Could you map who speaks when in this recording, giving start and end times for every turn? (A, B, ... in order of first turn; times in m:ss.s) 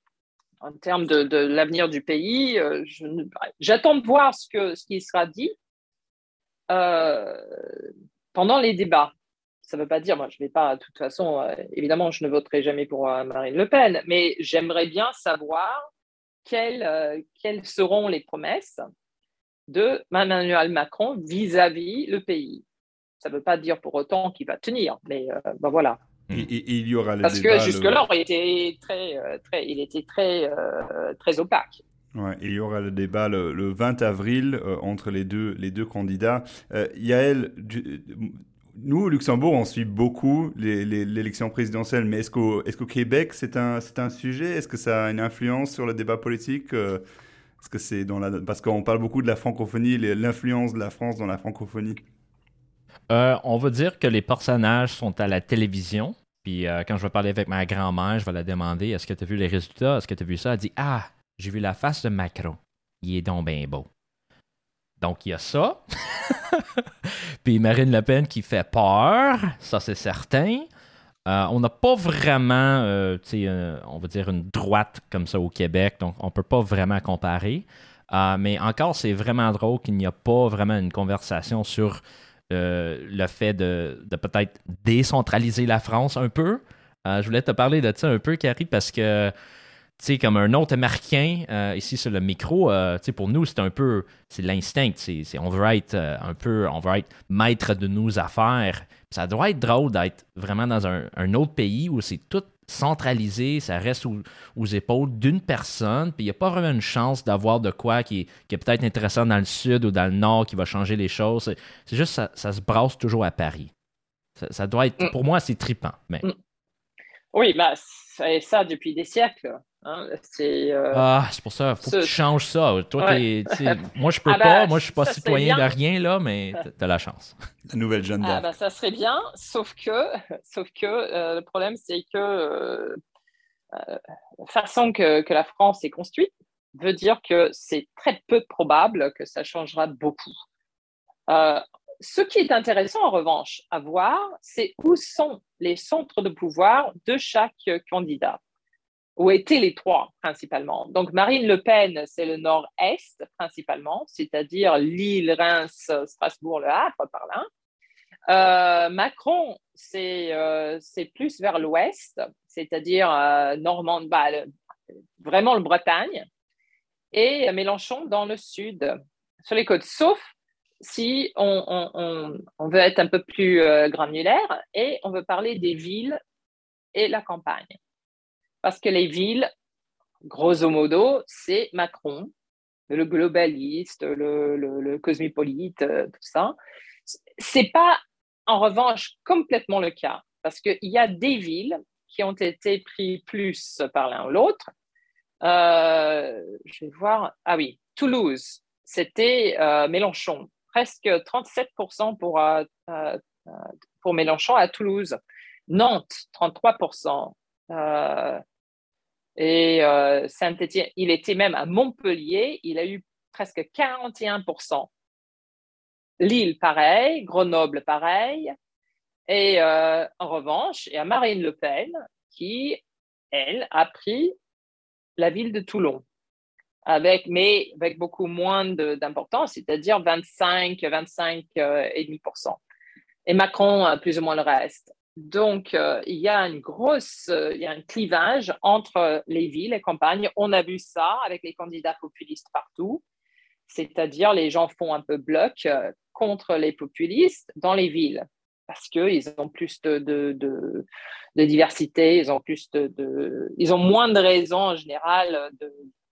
0:00.6-0:05.5 A
0:06.7-0:07.6 A
0:08.3-0:09.1 A
0:09.6-0:15.9 A
0:16.4-0:18.8 A
0:19.7-0:22.6 A
0:23.2-0:26.0 A
0:26.3-0:28.0 B
0:27.2-0:31.8 A
0:32.1-0:47.0 B
0:47.6-0:52.0 B
0:53.1-1:03.9 C
1:05.0-1:10.7 C
1:11.3-1:22.0 C
1:22.5-1:29.3 C
1:30.0-1:53.7 C
1:54.4-1:56.2 C
1:57.3-2:01.0 A
2:00.9-2:07.3 C
2:01.8-2:02.1 A
2:03.0-2:05.6 A
2:07.7-2:08.5 B
2:08.2-2:13.0 A
2:13.7-2:20.3 A
2:21.3-2:28.4 A
2:29.2-2:37.5 A
2:38.3-2:44.5 A
2:45.2-2:46.3 A
2:47.1-2:56.2 A
2:56.9-2:57.8 A
2:58.6-2:59.5 A
3:00.2-3:02.3 A
3:02.9-3:06.5 A
3:07.1-3:14.7 A
3:15.4-3:25.2 A
3:25.7-3:28.4 A
3:29.4-3:34.9 A
3:36.2-3:38.5 A
3:39.3-3:44.3 A
3:45.2-3:46.0 A
3:46.9-3:52.6 A
3:53.2-4:03.0 A
4:03.7-4:15.8 A